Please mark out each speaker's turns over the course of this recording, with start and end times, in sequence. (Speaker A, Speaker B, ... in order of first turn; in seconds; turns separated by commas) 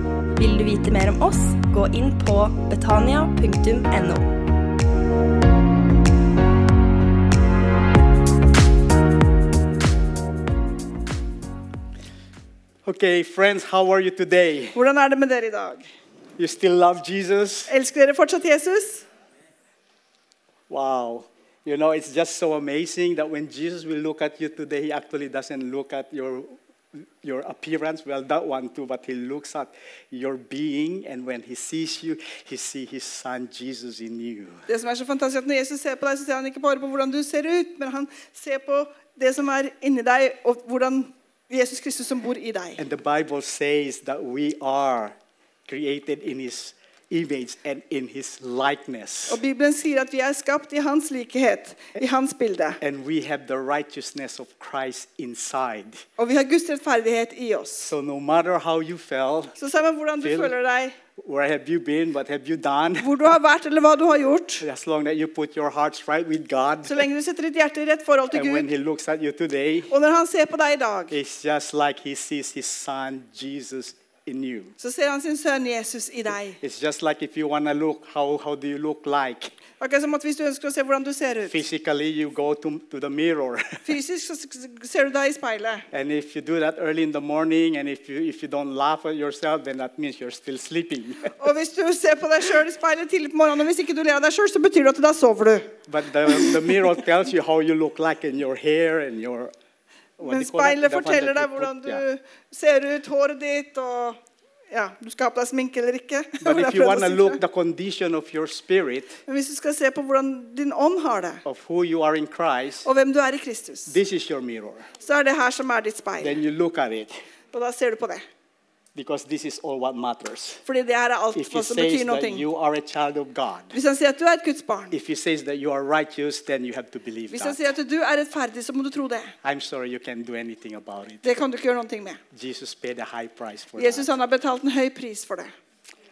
Speaker A: 0.4-4.3, Speaker B: 12.8-14.8, Speaker C: 14.7-15.8, Speaker B: 16.4-17.7, Speaker C: 17.7-19.1, Speaker B: 20.7-26.6, Speaker B: 27.2-34.6, Speaker C: 34.7-42.8, Speaker B: 42.8-45.1, Speaker B: 45.7-49.4, Speaker C: 49.3-52.8, Speaker B: 52.8-56.0, Speaker C: 56.2-57.9, Speaker B: 57.8-59.5, Speaker C: 59.6-61.0, Speaker B: 60.2-60.5, Speaker B: 61.2-63.1, Speaker C: 63.0-64.6, Speaker B: 64.6-67.1, Speaker C: 66.9-68.7, Speaker B: 68.3-69.9, Speaker C: 69.9-71.2, Speaker B: 71.1-74.7, Speaker C: 74.8-76.6, Speaker B: 76.6-79.5, Speaker C: 79.8-81.6, Speaker B: 81.5-83.8, Speaker C: 83.8-85.9, Speaker B: 85.9-91.3, Speaker C: 91.3-95.8, Speaker B: 95.9-99.5, Speaker B: 100.2-102.0, Speaker C: 100.2-104.2, Speaker C: 104.7-107.4, Speaker B: 106.4-109.2, Speaker C: 109.3-111.4, Speaker B: 111.5-112.9, Speaker C: 112.8-114.0, Speaker B: 113.9-114.9, Speaker C: 115.0-116.4, Speaker B: 116.2-117.1, Speaker C: 117.5-118.2, Speaker B: 119.0-120.6, Speaker C: 120.7-122.4, Speaker B: 121.3-123.7, Speaker C: 123.7-124.9, Speaker B: 124.9-127.6, Speaker C: 127.3-129.3, Speaker B: 129.4-131.2, Speaker C: 131.2-132.2, Speaker B: 132.3-134.1, Speaker C: 133.8-135.5